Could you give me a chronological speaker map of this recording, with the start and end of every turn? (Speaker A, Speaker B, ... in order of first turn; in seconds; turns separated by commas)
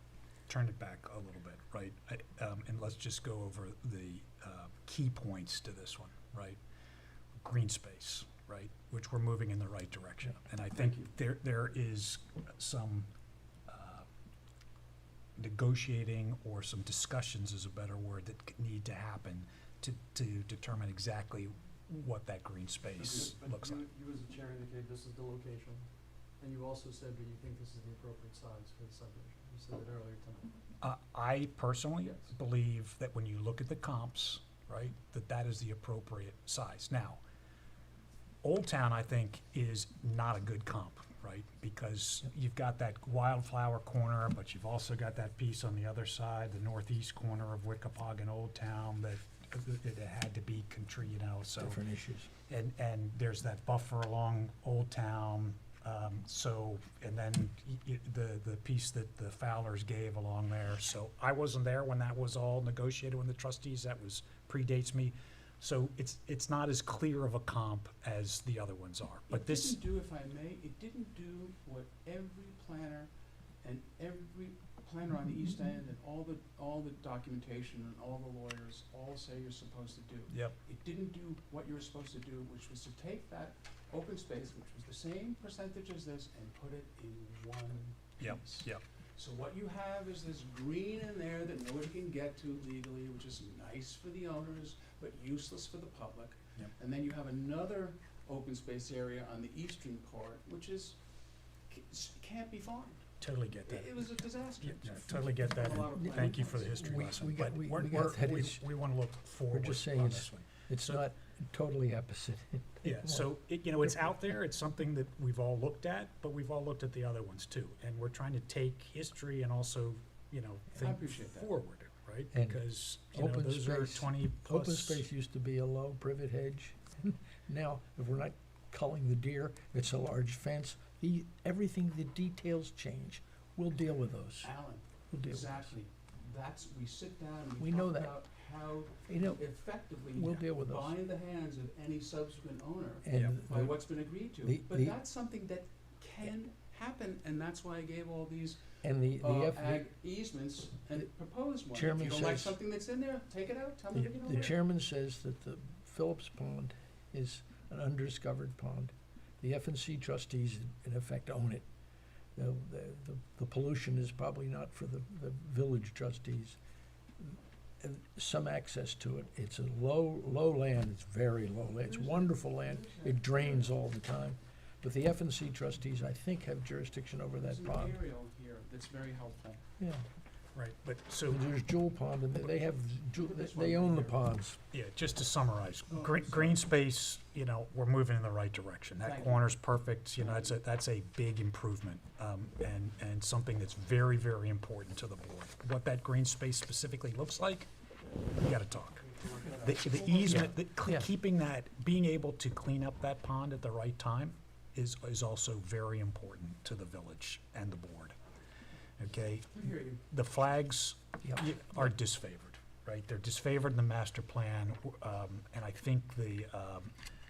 Speaker A: 0.5-6.6, Speaker A: 7.4-13.1, Speaker A: 13.7-14.1, Speaker A: 15.4-23.8, Speaker B: 23.0-25.9, Speaker B: 26.4-30.5, Speaker A: 30.8-37.2, Speaker A: 38.4-51.8, Speaker C: 51.6-52.3, Speaker A: 52.5-69.8, Speaker D: 69.3-73.1, Speaker D: 73.6-101.0, Speaker A: 80.3-80.6, Speaker A: 88.2-88.8, Speaker D: 101.7-103.0, Speaker A: 103.2-111.0, Speaker D: 103.7-106.8, Speaker C: 105.9-108.7, Speaker C: 109.5-113.3, Speaker A: 112.8-125.0, Speaker D: 120.8-121.5, Speaker C: 122.3-134.5, Speaker D: 134.4-148.6, Speaker C: 135.1-135.7, Speaker C: 137.6-138.2, Speaker C: 139.1-140.9, Speaker C: 143.1-145.0, Speaker C: 148.8-149.9, Speaker D: 149.2-154.5, Speaker C: 151.7-152.6, Speaker A: 153.9-154.5, Speaker C: 154.2-161.7, Speaker C: 162.4-166.6, Speaker C: 167.2-178.0, Speaker D: 171.8-173.7, Speaker D: 177.4-179.6, Speaker C: 179.8-180.0, Speaker A: 180.6-181.5, Speaker C: 181.3-184.6, Speaker D: 183.1-184.2, Speaker A: 184.7-197.7, Speaker D: 185.9-186.6, Speaker D: 189.0-189.5, Speaker D: 190.2-190.6, Speaker A: 198.4-199.0, Speaker D: 199.0-200.5, Speaker A: 199.6-208.2, Speaker C: 200.3-201.1, Speaker A: 209.0-216.9, Speaker D: 209.6-210.0